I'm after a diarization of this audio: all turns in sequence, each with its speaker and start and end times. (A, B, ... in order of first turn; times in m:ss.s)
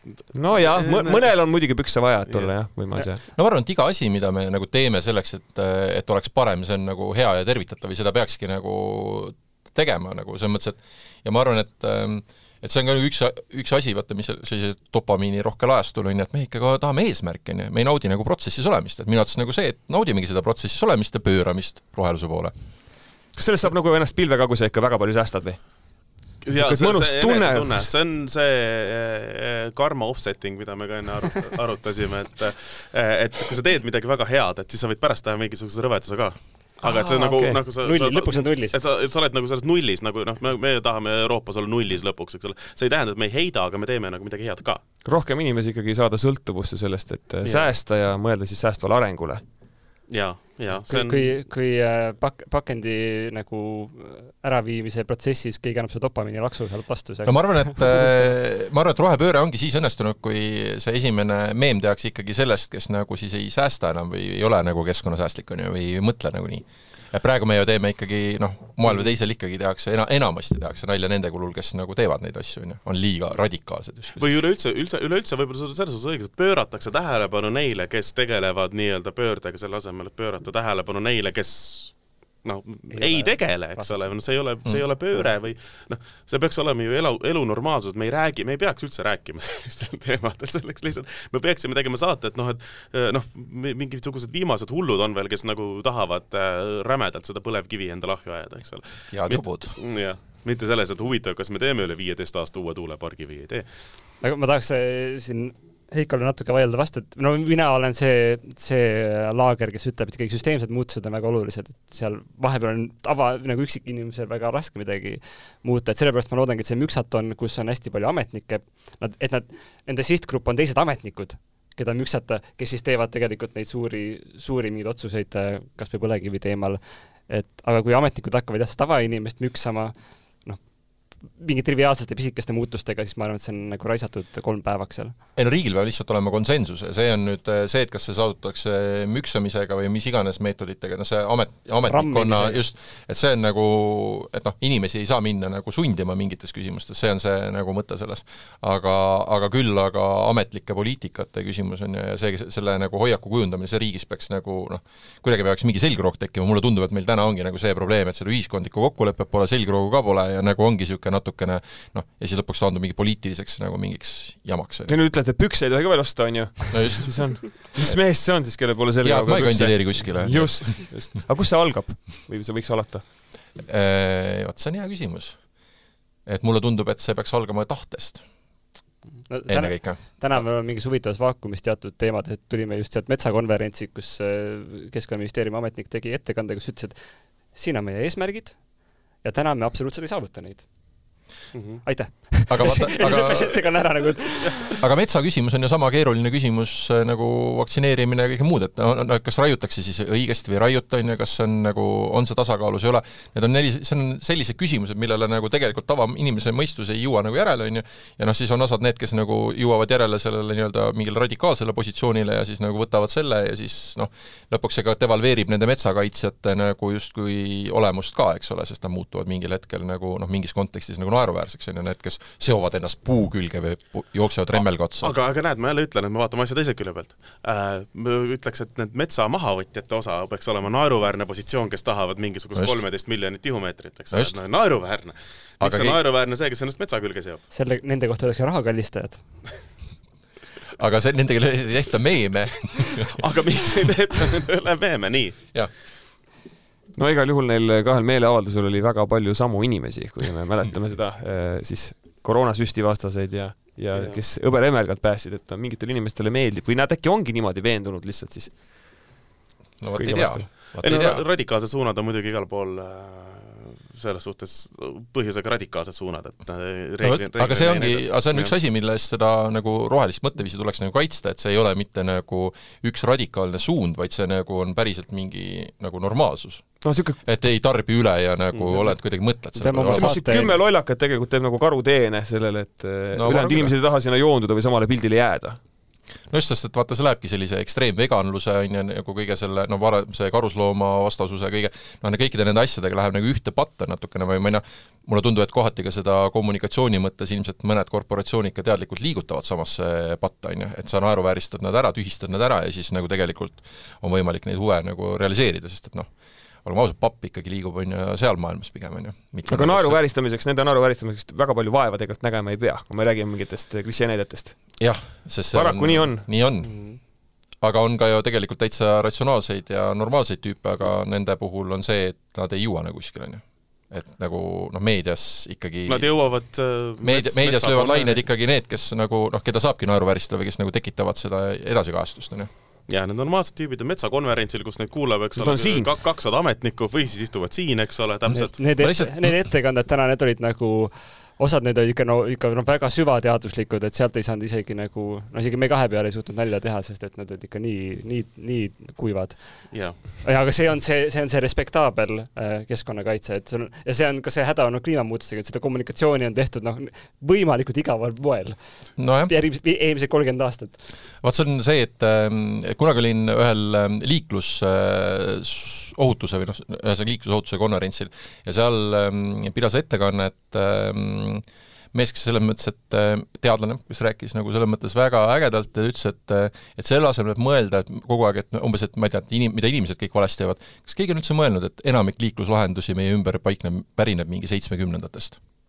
0:00.3-0:03.2 A
0:00.4-0:01.5 B
0:03.3-0:22.5 C
0:23.3-0:27.9 A
0:26.4-0:44.8 B
0:36.8-0:38.8 D
0:37.2-0:37.6 A
0:45.0-0:49.4 A
0:50.1-0:51.3 B
0:50.9-0:58.2 D
0:57.2-1:14.2 C
1:14.1-1:43.6 B
1:22.9-1:23.9 D
1:39.1-1:39.8 C
1:44.2-2:15.2 D
2:15.4-2:45.0 C
2:21.9-2:22.6 D
2:44.9-2:53.0 A
2:46.7-2:48.0 C
2:49.0-2:51.1 C
2:53.6-2:55.7 C
2:56.2-2:58.3 C
2:59.3-3:11.1 D
2:59.5-3:00.4 C
3:11.5-3:11.8 B
3:11.8-3:14.8 D
3:12.5-3:13.7 C
3:14.8-3:45.1 C
3:44.5-3:57.4 B
3:55.6-3:56.0 C
3:57.5-3:59.5 D
4:00.8-4:03.1 C
4:03.2-4:05.5 B
4:06.9-4:19.1 A
4:13.9-4:14.2 B
4:19.8-4:21.2 C
4:20.0-4:20.5 A
4:20.7-4:28.5 B
4:27.0-4:40.2 C
4:36.8-4:37.2 A
4:39.6-4:40.5 D
4:39.9-4:45.6 A
4:43.1-4:43.7 C
4:46.3-5:06.1 C
5:06.6-5:10.0 C
5:09.5-5:14.8 A
5:14.8-5:26.2 C
5:15.5-5:16.3 A
5:16.6-5:17.0 B
5:25.9-5:28.2 B
5:27.0-5:32.5 C
5:32.9-5:38.6 B
5:35.4-5:35.9 A
5:38.3-5:39.4 C
5:38.5-6:00.8 D
5:49.7-5:50.0 B
5:59.0-5:59.3 C
6:01.2-6:25.4 C